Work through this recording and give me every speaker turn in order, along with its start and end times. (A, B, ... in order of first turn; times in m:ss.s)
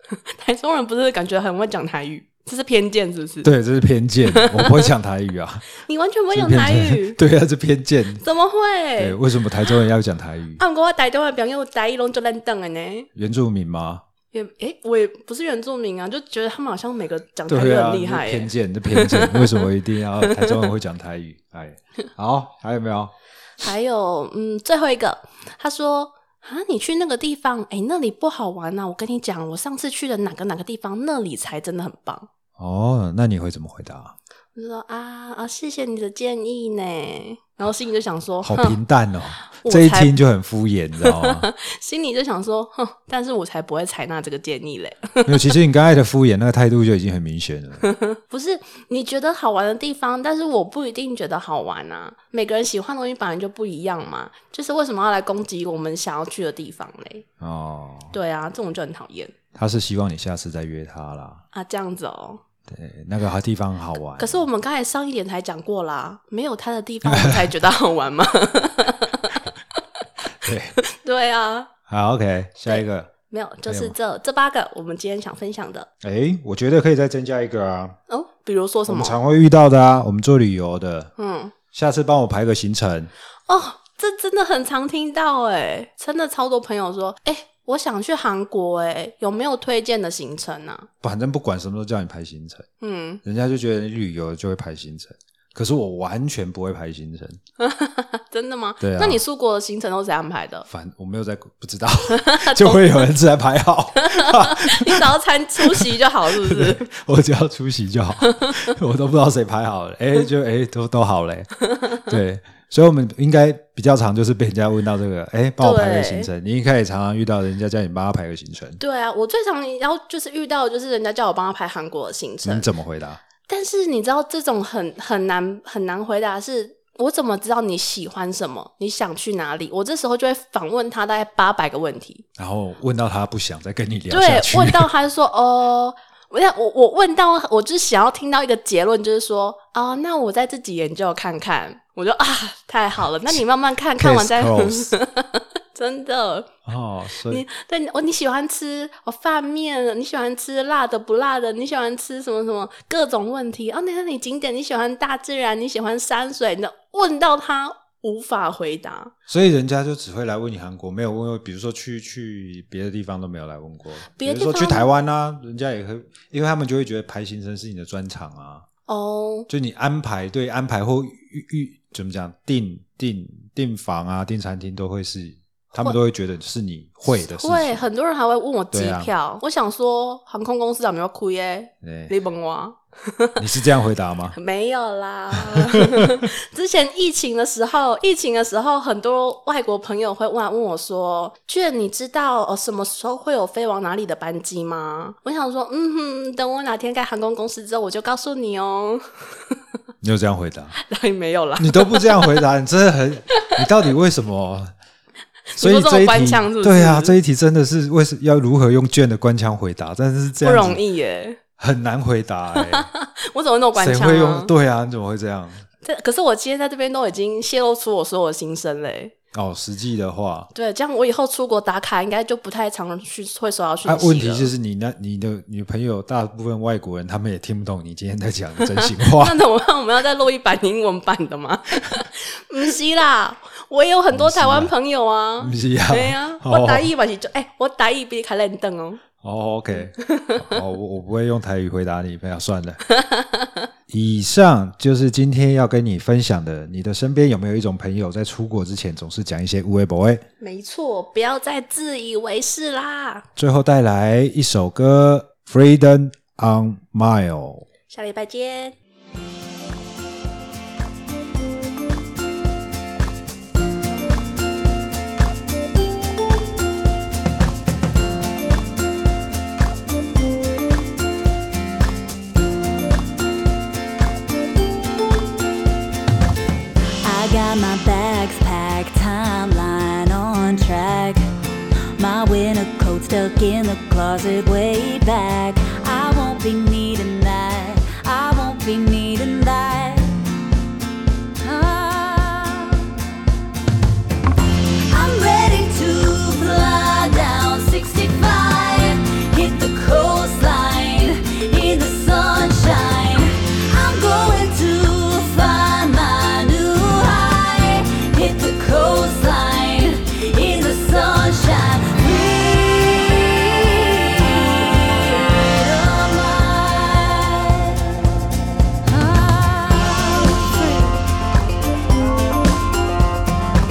0:00.1-0:03.5 A
0:03.4-0:05.7 B
0:04.3-0:04.9 A
0:05.8-0:07.2 A
0:06.3-0:08.2 B
0:08.2-0:09.2 A
0:09.0-0:10.6 B
0:10.6-0:13.1 A
0:13.2-0:14.0 B
0:14.3-0:19.7 A
0:17.5-0:23.1 B
0:20.2-0:20.6 A
0:23.6-0:32.3 A
0:32.6-0:34.2 B
0:34.6-0:38.8 A
0:38.4-0:41.5 B
0:39.5-0:40.1 A
0:41.0-0:45.6 A
0:45.2-0:47.8 B
0:47.8-0:57.2 A
0:57.4-0:58.2 B
0:58.1-0:59.3 A
0:59.6-1:01.4 B
1:01.5-1:02.4 A
1:02.7-1:04.5 B
1:04.2-1:09.5 A
1:07.0-1:07.6 B
1:10.4-1:10.8 B
1:10.8-1:11.7 A
1:11.9-1:13.1 B
1:12.6-1:15.9 A
1:13.7-1:14.0 B
1:16.0-1:18.0 B
1:18.1-1:19.2 A
1:18.9-1:21.1 B
1:21.2-1:21.5 A
1:21.7-1:23.1 B
1:23.5-1:30.9 A
1:31.0-1:32.7 B
1:32.8-1:33.2 A
1:33.2-1:37.4 B
1:37.6-1:40.7 A
1:38.8-1:39.2 B
1:40.7-1:45.1 B
1:42.1-1:43.0 A
1:44.0-1:46.8 A
1:45.7-1:45.9 B
1:46.4-1:58.8 B
1:48.3-1:48.7 A
1:55.6-1:56.3 A
1:58.8-2:02.7 A
2:02.4-2:03.2 B
2:03.5-2:12.2 A
2:12.4-2:14.9 B
2:14.1-2:26.5 A
2:24.0-2:25.0 B
2:26.7-2:27.4 B
2:27.2-2:39.1 A
2:39.3-2:48.6 B
2:44.1-2:44.9 A
2:48.9-2:49.5 A
2:49.5-2:57.9 B
2:57.1-3:03.4 A
2:58.7-2:59.1 B
3:01.8-3:02.1 B
3:03.4-3:04.4 B
3:04.4-3:19.0 A
3:05.7-3:06.1 B
3:20.0-3:20.8 B
3:20.8-3:22.4 A
3:21.6-3:24.7 B
3:25.5-3:27.2 A
3:25.6-3:30.8 B
3:30.4-3:31.4 A
3:31.6-3:32.9 B
3:32.6-3:34.5 A
3:33.8-3:35.6 B
3:35.8-3:39.1 A
3:39.3-3:40.5 B
3:40.5-3:44.5 A
3:43.8-3:49.4 B
3:48.6-3:59.0 A
3:54.1-3:54.7 B
3:55.4-3:56.9 B
3:59.2-4:02.8 B
4:00.0-4:00.6 A
4:02.9-4:03.7 A
4:03.9-4:10.2 B
4:10.4-4:13.2 A
4:13.4-4:17.7 B
4:17.9-4:18.8 A
4:37.0-4:41.2 C
4:42.0-4:50.2 C
4:51.4-4:53.1 C
4:54.9-5:18.2 C
5:18.8-5:21.0 C